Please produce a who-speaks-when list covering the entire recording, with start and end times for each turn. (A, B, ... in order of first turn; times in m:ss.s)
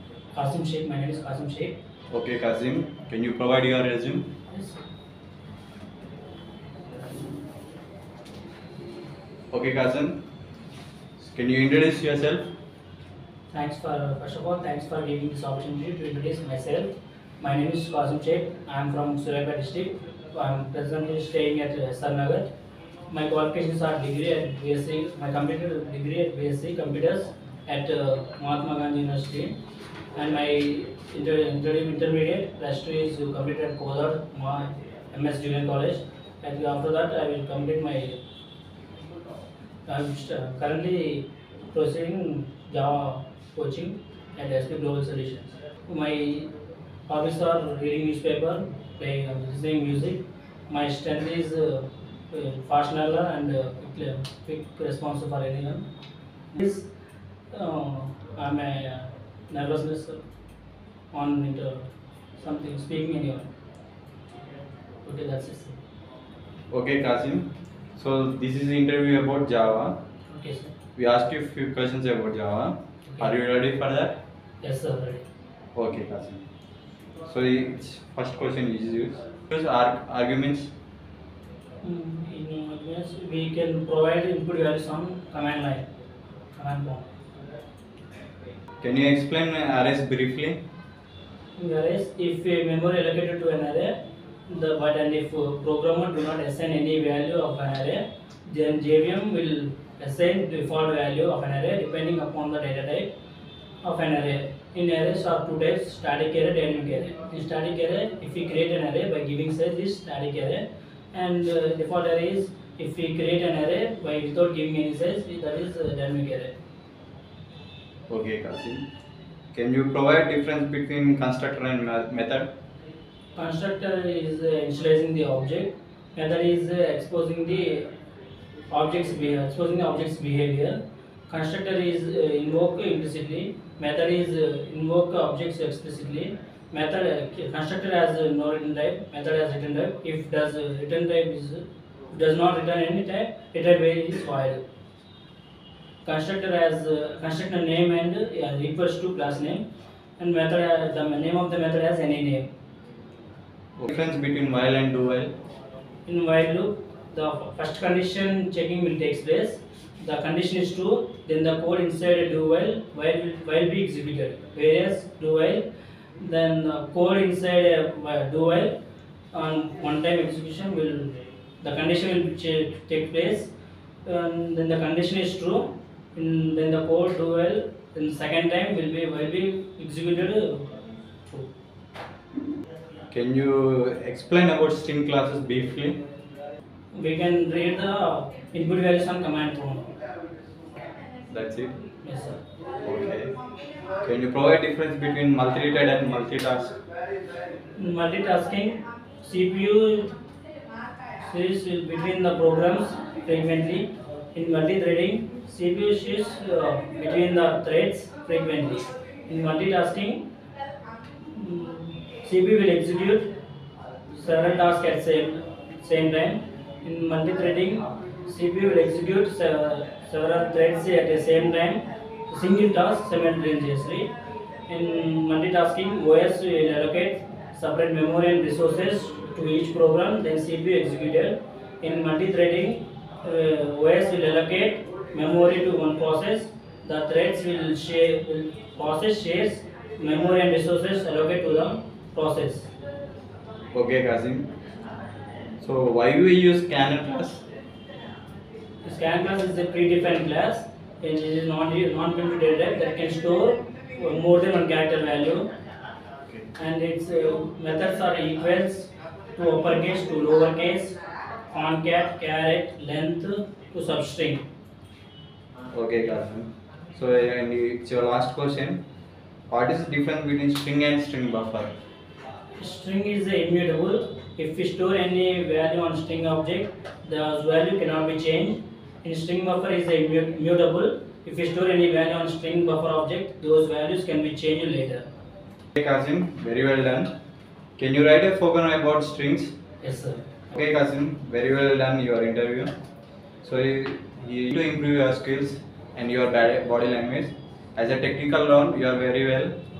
0:00.3-0:01.8 A
0:02.1-0:04.3 B
0:04.5-0:04.8 A
0:09.5-0:10.2 B
0:11.2-0:12.5 B
0:13.5-0:22.4 A
0:23.1-0:29.6 A
0:30.1-0:38.2 A
0:39.8-0:46.5 A
0:47.1-0:55.9 A
0:56.5-0:56.9 A
0:57.5-1:00.2 A
1:01.1-1:03.5 A
1:05.0-1:05.8 A
1:06.7-1:10.0 B
1:10.3-1:10.8 A
1:10.9-1:14.2 B
1:14.6-1:15.2 A
1:15.7-1:16.4 B
1:17.2-1:20.7 B
1:21.8-1:25.9 A
1:26.6-1:27.0 A
1:28.8-1:30.6 B
1:31.6-1:43.1 A
1:43.8-1:56.5 A
1:58.1-1:58.8 B
1:59.5-2:02.5 B
2:03.3-2:07.9 A
2:08.7-2:24.6 A
2:26.0-2:29.7 A
2:30.2-2:32.5 A
2:33.8-2:35.3 B
2:36.0-2:45.6 A
2:46.2-2:48.8 A
2:49.3-2:53.5 A
2:54.0-3:00.7 A
3:03.1-3:06.0 B
3:06.9-3:09.9 A
3:11.3-3:11.8 B
3:12.0-3:12.4 A
3:12.8-3:13.4 B
3:14.0-3:16.8 B
3:17.7-3:20.2 A
3:21.1-3:30.3 A
3:31.3-3:33.3 A
3:34.1-3:44.1 A
3:44.7-4:02.7 A
4:03.7-4:04.5 B
4:05.6-4:07.4 B
4:08.8-4:15.5 A
4:16.6-4:21.0 A
4:21.5-4:24.5 A
4:25.7-4:28.8 B
4:29.5-4:31.7 B
4:32.6-4:45.0 A
4:45.7-4:47.1 B
4:47.8-4:49.6 B
4:49.8-4:50.3 A
4:50.5-4:52.7 B
4:53.4-4:59.6 B